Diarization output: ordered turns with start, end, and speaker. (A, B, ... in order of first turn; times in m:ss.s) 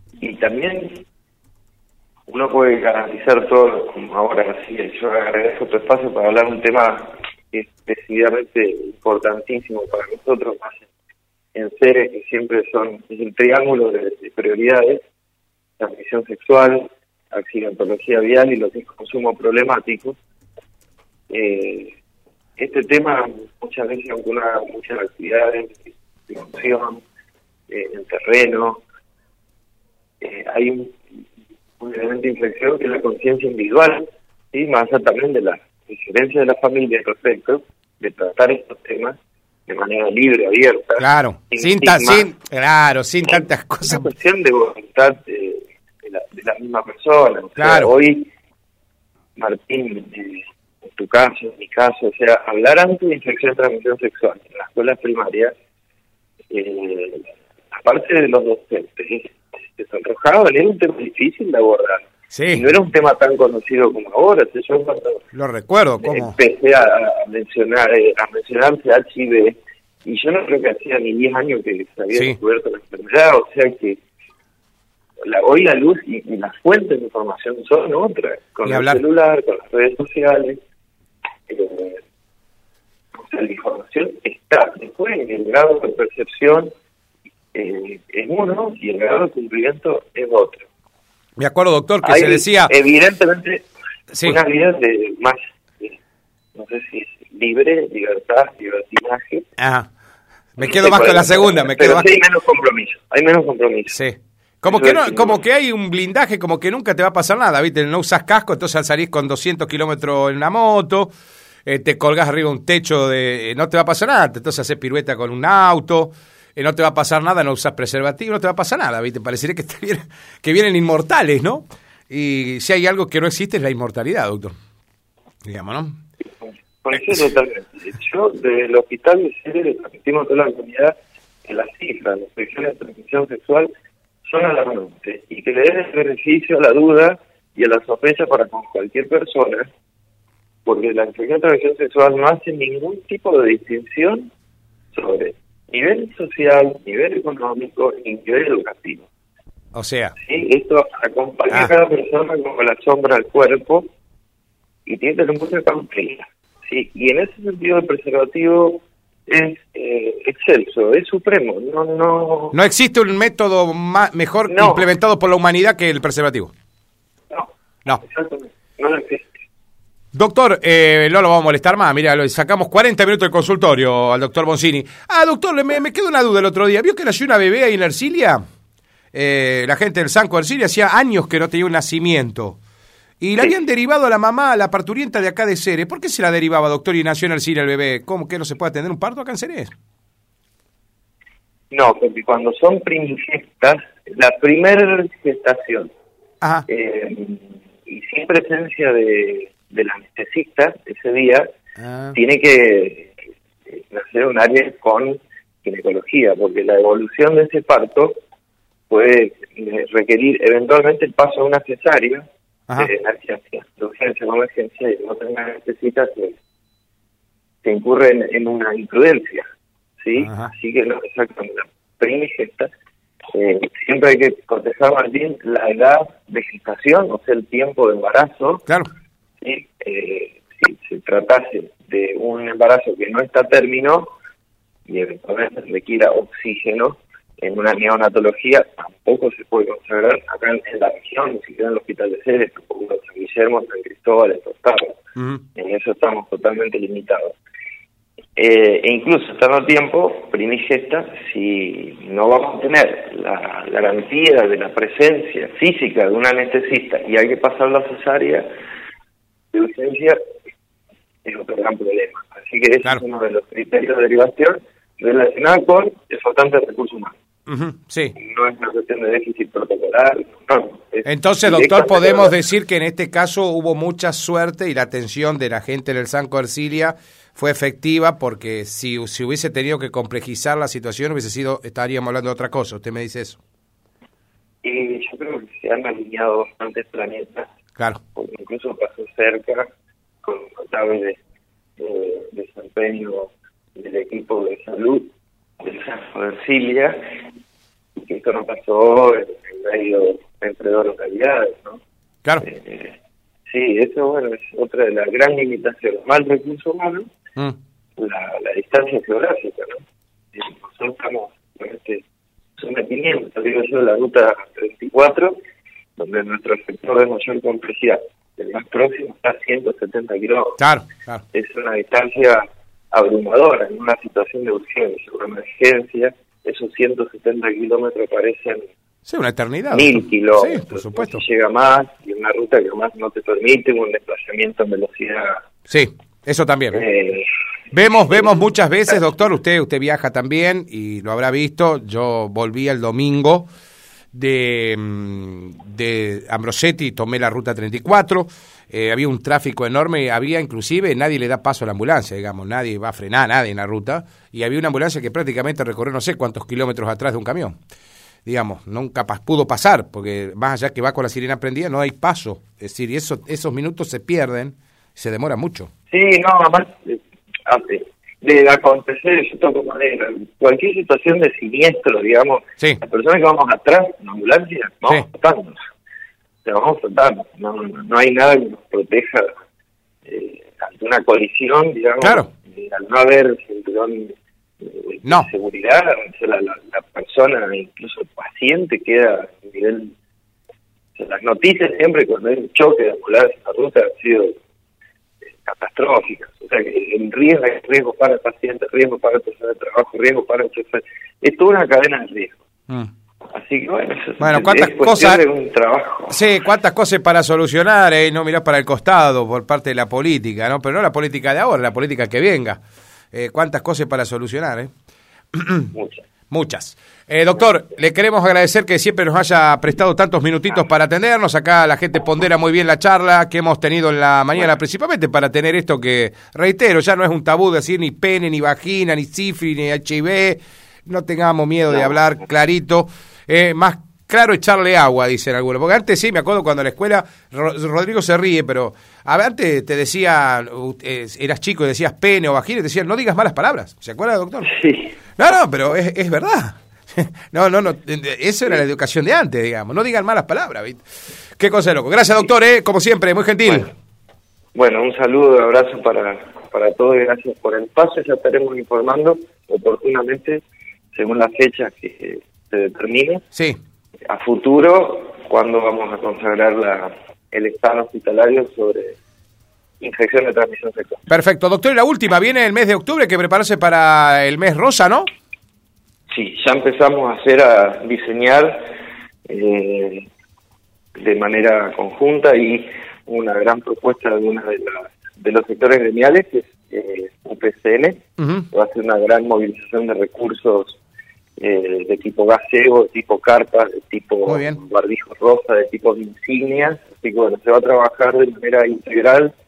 0:00.2-0:01.0 A
0:02.3-0:10.9 A
0:11.5-0:15.0 A
0:15.8-0:20.2 A
0:21.3-0:22.0 A
0:22.6-0:27.0 A
0:27.7-0:28.8 A
0:30.2-0:31.2 A
0:31.8-0:42.3 A
0:41.0-0:44.1 B
0:43.3-0:48.3 A
0:47.6-0:47.9 B
0:49.4-0:55.5 A
0:56.5-1:05.2 A
1:02.3-1:02.7 B
1:05.3-1:06.4 B
1:06.0-1:14.0 A
1:15.2-1:20.6 A
1:18.7-1:19.0 B
1:21.5-1:22.0 A
1:23.1-1:26.7 A
1:27.5-1:30.7 A
1:31.4-1:32.7 B
1:32.0-1:33.7 A
1:34.1-1:34.4 B
1:34.2-1:36.0 A
1:36.6-1:39.5 A
1:39.6-1:39.9 B
1:40.6-1:42.1 B
1:40.6-1:44.0 A
1:43.9-1:51.1 B
1:44.7-1:45.4 A
1:51.7-2:04.6 B
2:05.4-2:06.0 B
2:06.4-2:13.7 A
2:06.9-2:07.3 B
2:14.2-2:19.7 A
2:20.6-2:24.3 A
2:24.9-2:29.1 A
2:29.7-2:30.2 B
2:30.2-2:33.9 A
2:34.9-2:42.6 A
2:42.5-2:46.5 B
2:44.5-2:44.9 A
2:47.3-2:49.3 A
2:50.1-2:58.4 B
2:59.1-3:02.6 B
3:03.2-3:09.7 B
3:11.7-3:15.9 A
3:16.4-3:16.7 B
3:16.7-3:21.5 A
3:21.8-3:22.2 B
3:22.2-3:28.2 A
3:28.9-3:36.4 A
3:37.6-3:39.5 A
3:40.0-3:42.7 A
3:40.2-3:40.5 B
3:43.3-3:48.6 A
3:49.4-3:54.1 A
3:54.9-4:05.0 A
4:05.2-4:05.4 B
4:05.6-4:07.4 A
4:08.4-4:18.5 A
4:19.5-4:20.2 A
4:21.2-4:27.2 A
4:27.5-4:28.2 B
4:28.2-4:32.3 A
4:31.0-4:43.4 B
4:44.6-4:47.5 A
4:48.2-4:49.7 A
4:50.2-4:51.2 A
4:51.8-4:55.1 A
4:55.6-4:57.0 A
4:58.0-5:01.8 A
5:02.4-5:07.1 A
5:08.0-5:09.8 A
5:10.3-5:12.0 A
5:12.6-5:15.4 A
5:16.0-5:20.6 A
5:20.6-5:21.2 B
5:21.3-5:28.7 A
5:29.1-5:31.2 B
5:29.7-5:35.4 A
5:35.7-5:36.8 B
5:36.7-5:37.3 A
5:37.7-5:43.5 B
5:44.1-5:57.6 B
5:58.3-6:05.7 B
6:05.9-6:15.6 A
6:16.4-6:19.3 A
6:20.1-6:30.0 A
6:22.0-6:22.3 B
6:31.0-6:34.4 A
6:35.3-6:42.4 A
6:43.3-6:46.2 A
6:44.2-6:45.2 B
6:46.1-6:52.6 B
6:53.1-6:54.7 B
6:55.3-6:55.7 B
6:55.7-6:56.1 A
6:56.3-7:24.6 B
7:24.5-7:24.9 A
7:25.2-7:30.8 B
7:31.4-7:33.7 B
7:34.5-7:40.4 A
7:40.9-7:43.2 A
7:44.1-7:49.0 A
7:49.8-7:51.0 A
7:51.1-7:55.1 B
7:56.1-7:58.7 A
7:59.3-8:00.1 A
8:01.0-8:10.8 A
8:08.2-8:08.5 B
8:11.4-8:19.3 A
8:14.3-8:14.6 B